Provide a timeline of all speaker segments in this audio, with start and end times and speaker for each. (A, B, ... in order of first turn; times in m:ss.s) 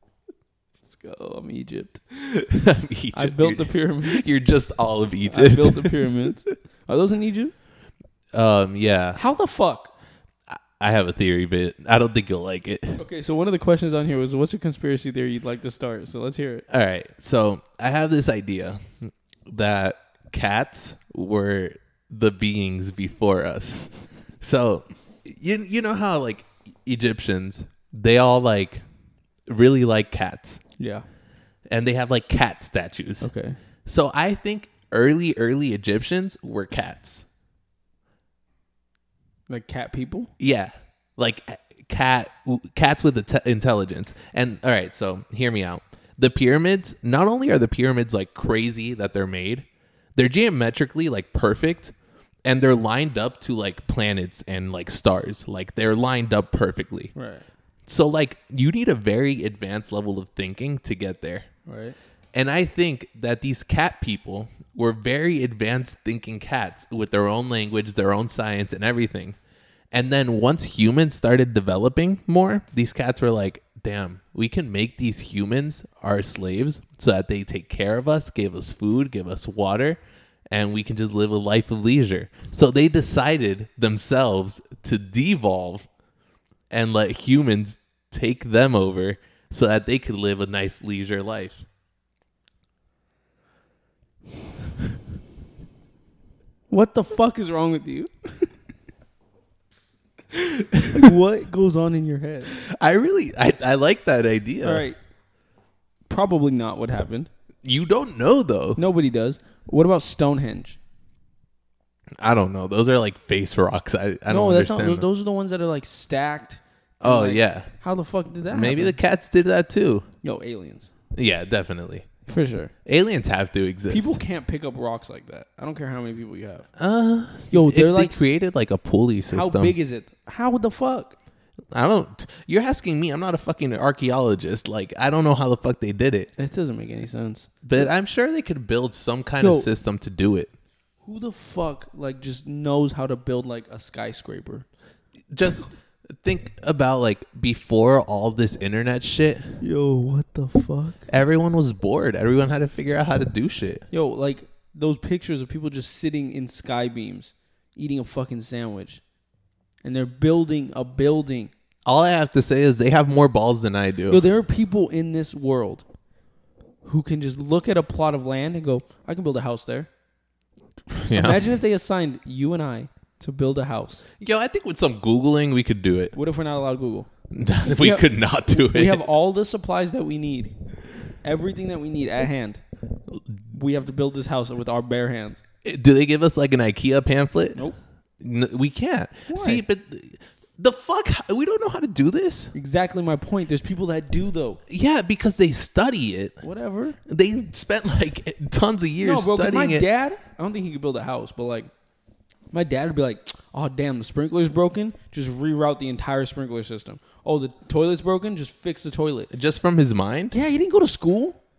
0:00.8-0:02.0 A
0:02.1-0:06.1 B
0:03.1-0:04.3 A
0:05.3-0:07.5 A
0:08.3-0:09.2 B
0:09.2-0:09.9 A
0:10.5-0:13.0 B
0:13.0-0:16.6 A
0:16.7-0:28.8 B
0:29.5-0:30.6 B
0:30.8-0:31.0 A
0:31.7-0:33.3 B
0:33.2-0:33.6 A
0:33.8-0:37.2 B
0:39.5-0:40.3 A
0:40.4-0:49.6 B
0:50.2-0:51.9 B
0:52.4-0:57.1 B
0:57.2-0:57.5 A
0:57.9-1:01.5 B
1:01.7-1:02.0 A
1:02.3-1:09.4 B
1:09.9-1:20.0 B
1:20.5-1:25.9 B
1:26.7-1:31.7 B
1:36.7-1:38.5 A
1:40.3-1:41.1 B
1:40.9-1:42.6 A
1:42.5-1:44.9 B
1:44.6-1:45.0 A
1:46.1-1:47.3 A
1:47.6-1:48.8 B
1:48.8-1:50.8 A
1:52.2-1:55.1 B
1:54.3-1:59.0 A
1:57.0-1:57.7 B
1:58.5-2:00.1 B
2:00.2-2:00.9 A
2:01.2-2:02.1 B
2:02.3-2:02.7 A
2:02.9-2:04.2 B
2:03.9-2:06.7 A
2:06.8-2:09.8 B
2:07.5-2:08.3 A
2:09.3-2:11.2 A
2:11.7-2:16.3 B
2:16.4-2:17.9 A
2:17.6-2:20.5 B
2:19.4-2:19.7 A
2:21.0-2:24.7 A
2:25.3-2:29.6 B
2:29.6-2:31.1 A
2:31.1-2:33.8 B
2:33.9-2:39.0 A
2:39.8-2:41.5 A
2:41.8-2:44.2 B
2:44.1-2:45.8 A
2:46.8-2:49.9 A
2:51.0-2:51.4 B
2:51.1-2:54.0 A
2:54.2-2:56.2 B
2:56.1-2:57.1 A
2:57.3-2:59.0 B
2:57.7-3:00.6 A
3:01.2-3:02.6 A
3:03.5-3:05.4 A
3:05.6-3:07.7 B
3:08.2-3:12.5 B
3:09.3-3:09.6 A
3:12.5-3:14.6 A
3:14.7-3:16.4 B
3:16.4-3:17.0 A
3:17.1-3:19.8 B
3:19.0-3:21.7 A
3:22.5-3:29.3 A
3:29.3-3:30.4 B
3:30.3-3:31.4 A